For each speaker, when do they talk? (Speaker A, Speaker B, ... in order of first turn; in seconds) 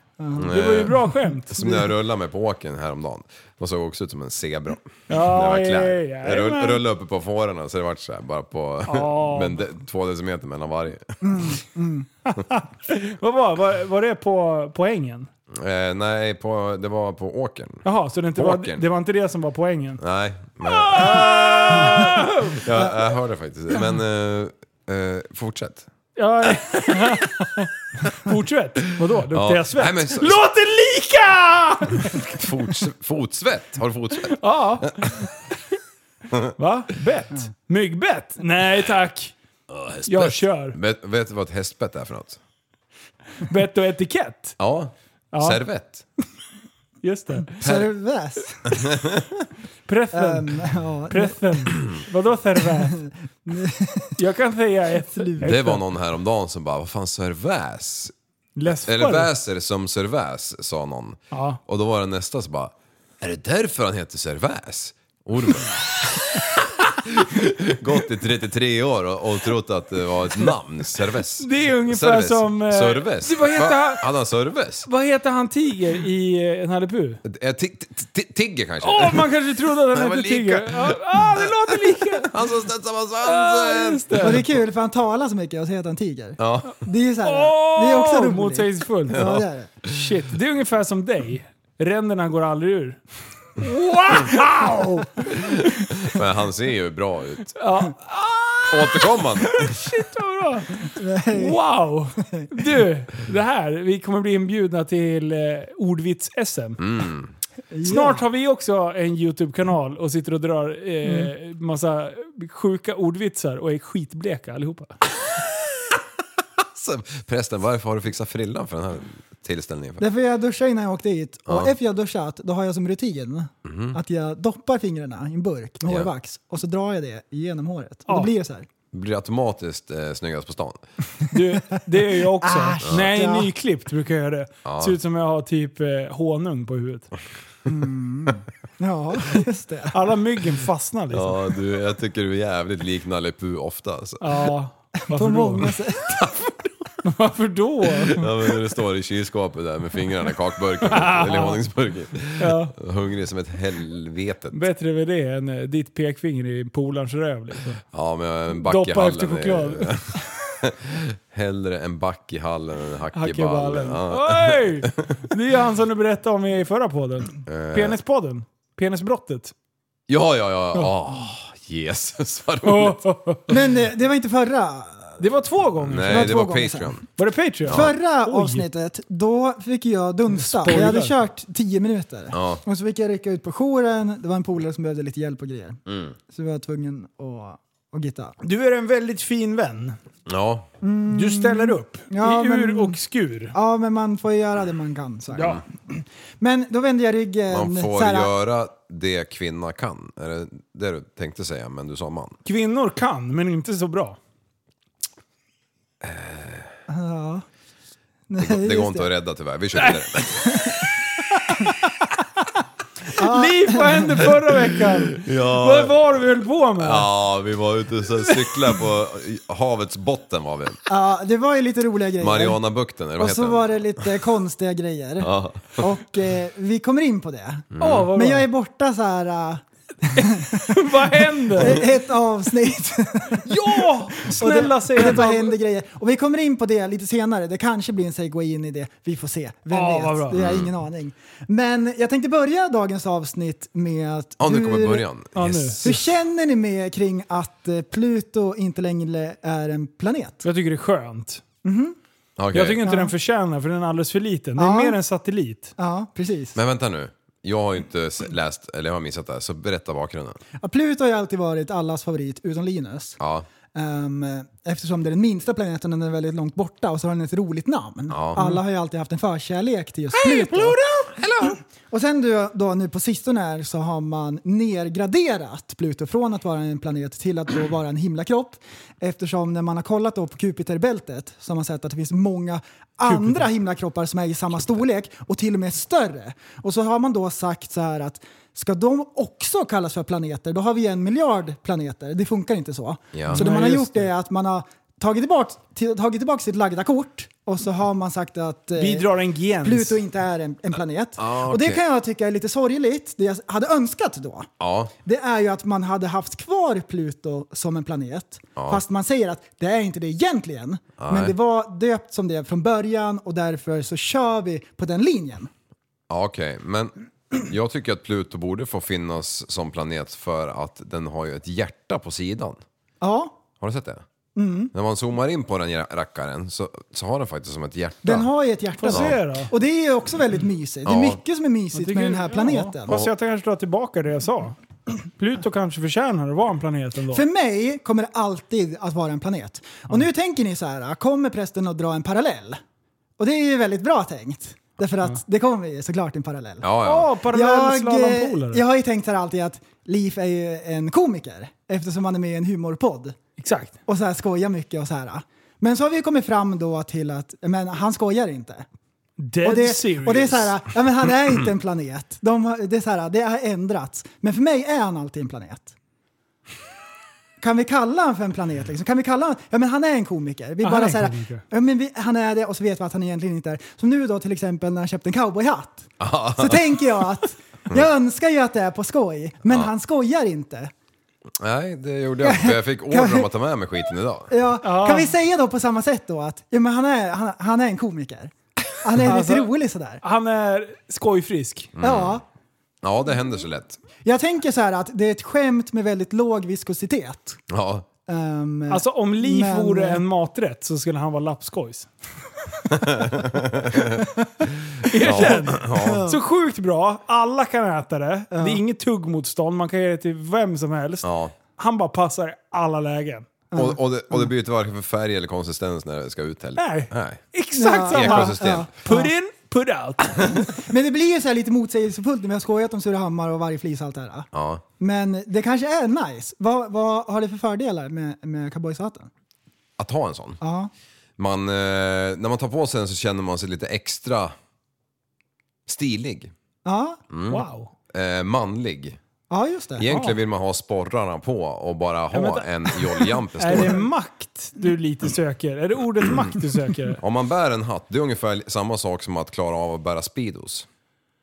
Speaker A: 0.2-0.5, 11.2-12.1, 47.6-48.7, 50.1-51.4, 53.5-54.2, 55.1-55.5, 84.2-89.7, 100.9-101.6, 107.7-108.2, 120.0-128.7, 131.2-131.8, 132.4-133.5, 137.7-140.0, 145.0-146.2, 173.5-175.2, 176.0-177.0, 177.7-188.4, 190.8-193.0, 193.5-198.3, 206.9-207.4, 208.3-209.1, 210.4-210.8, 213.1-214.3, 220.9-222.6, 223.2-245.1, 245.8-250.4, 251.6-252.0, 252.8-253.1, 254.6-255.0, 255.8-256.6, 260.6-263.2, 263.7-271.1, 271.9-299.1, 299.6-304.5, 305.0-315.5, 323.0-323.4, 324.4-324.7, 328.0-333.1, 337.1-342.6, 343.2-346.7, 347.3-353.2, 353.9-358.7, 359.4-365.8, 367.4-380.7, 382.2-383.3, 384.3-390.0, 391.8-392.2, 394.0-397.4, 398.1-400.0, 405.0-406.2, 408.3-408.6, 413.5-414.3, 417.6-419.1, 420.4-424.3, 424.8-429.1, 430.4-430.7, 436.6-437.0, 439.3-439.9
Speaker B: 0.4-11.6, 15.5-18.8, 20.0-25.9, 29.0-30.4, 32.1-35.3, 39.7-42.4, 44.6-46.0, 47.6-47.9, 48.7-49.2, 55.4-58.1, 58.9-74.9, 77.2-84.5, 86.4-86.8, 89.1-90.2, 95.2-97.5, 98.7-99.8, 106.8-107.3, 116.6-120.0, 121.5-121.7, 123.7-124.0, 128.9-130.8, 134.7-135.0, 141.1-144.5, 146.1-146.7, 148.1-154.6, 157.9-165.2, 167.5-168.0, 170.1-173.0, 175.8-177.1, 182.3-182.6, 185.9-186.1, 190.3-190.7, 197.5-202.4, 206.0-206.7, 208.4-210.7, 214.9-216.2, 216.8-220.8, 222.2-223.7, 225.2-225.9, 227.7-228.1, 240.4-240.7, 244.4-246.0, 252.4-252.8, 256.6-260.4, 263.2-263.5, 268.1-268.4, 270.2-271.6, 293.1-293.5, 301.2-301.8, 304.6-304.9, 308.6-308.8, 311.0-311.3, 316.1-322.6, 323.6-324.0, 324.7-328.3, 328.9-329.2, 330.9-331.2, 346.6-347.1, 376.0-376.8, 379.5-379.7, 381.4-384.3, 391.8-392.2, 392.8-393.8, 397.5-397.9, 402.8-404.0, 405.0-406.1, 411.0-411.3, 413.6-417.2, 417.9-418.7, 424.3-424.6, 429.8-430.4, 431.2-434.4, 435.7-436.3, 437.1-439.0, 439.8-443.9, 447.0-450.7
Speaker C: 0.5-1.6, 5.1-6.8, 8.9-9.6, 12.3-15.3, 17.8-20.0, 20.6-22.6, 26.2-32.5, 34.3-35.3, 36.6-39.3, 40.1-40.8, 43.4-44.6, 45.3-45.6, 47.0-47.6, 49.9-53.1, 54.2-55.8, 58.6-59.3, 61.3-61.6, 71.4-74.1, 74.8-77.2, 78.8-82.4, 83.2-84.5, 87.2-93.0, 93.6-95.8, 97.6-106.8, 107.8-115.0, 131.3-137.1, 139.9-141.5, 144.2-145.8, 147.0-148.3, 150.8-151.6, 152.4-152.8, 154.5-157.8, 158.5-160.0, 163.1-169.5, 172.6-173.6, 175.2-176.4, 177.2-178.6, 180.4-181.1, 188.4-190.0, 191.1-193.6, 202.4-204.2, 213.1-217.1, 227.8-228.5, 230.2-231.8, 233.4-235.6, 239.7-240.4, 245.3-246.0, 250.4-251.4, 252.5-255.7, 283.1-283.4, 293.3-294.1, 298.8-300.0, 328.8-329.5, 331.7-337.2, 346.8-348.6, 353.4-353.7, 359.2-360.6, 370.6-371.4, 384.6-385.1, 389.0-391.7, 398.7-401.9, 404.9-413.3, 416.6-420.3, 437.3-437.7, 439.9-440.2, 442.1-447.0